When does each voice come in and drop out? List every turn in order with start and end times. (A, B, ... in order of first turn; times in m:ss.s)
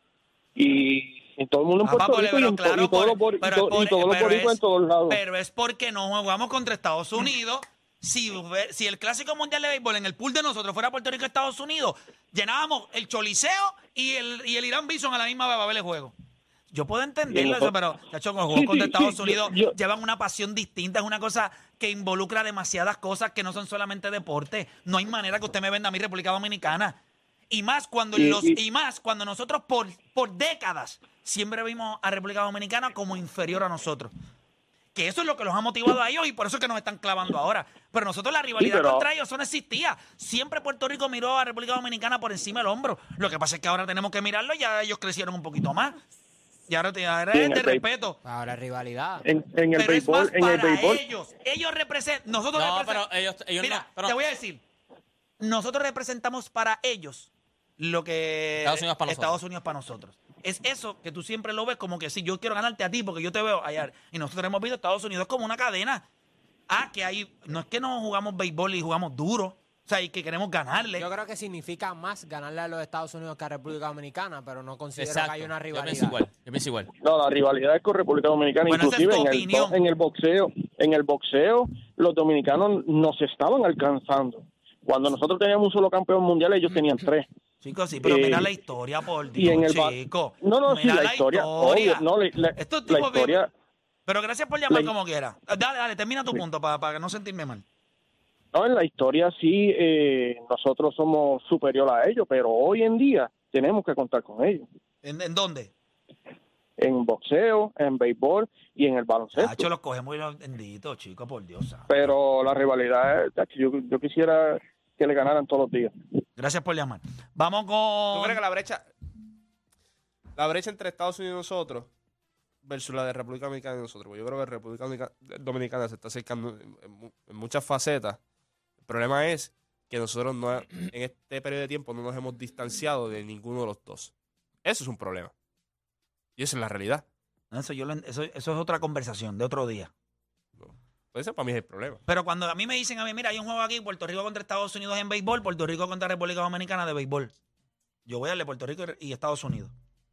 0:00.6-0:05.2 A
0:01.8-0:16.1 B
0:16.7-0:27.0 B
0:17.3-0:17.7 A
0:18.5-0:19.7 A
0:27.5-0:34.1 B
0:28.1-0:28.6 A
0:34.9-0:46.0 B
0:38.6-0:39.1 A
0:46.7-0:48.2 B
0:47.3-0:47.8 A
0:48.2-0:49.2 C
0:49.2-0:51.0 A
0:49.7-0:53.0 B
0:52.5-0:54.2 D
0:53.6-0:54.6 B
0:55.4-1:06.0 B
0:58.6-0:59.4 D
1:06.7-1:11.1 B
1:11.0-1:16.2 C
1:15.0-1:16.9 D
1:17.0-1:27.2 A
1:18.7-1:19.8 B
1:27.6-1:32.0 B
1:28.0-1:28.5 A
1:29.4-1:33.5 A
1:32.6-1:33.4 B
1:34.1-1:37.6 B
1:38.5-1:44.6 A
1:45.0-1:45.7 B
1:46.8-1:49.7 A
1:49.4-1:52.1 B
1:51.9-1:55.9 A
1:56.4-1:58.4 B
1:58.1-1:58.8 E
2:00.4-2:01.9 E
2:02.6-2:08.2 E
2:08.8-2:14.1 E
2:14.6-2:15.3 E
2:16.4-2:17.0 E
2:17.5-2:19.9 B
2:20.6-2:22.0 E
2:22.1-2:27.3 B
2:28.0-2:29.7 B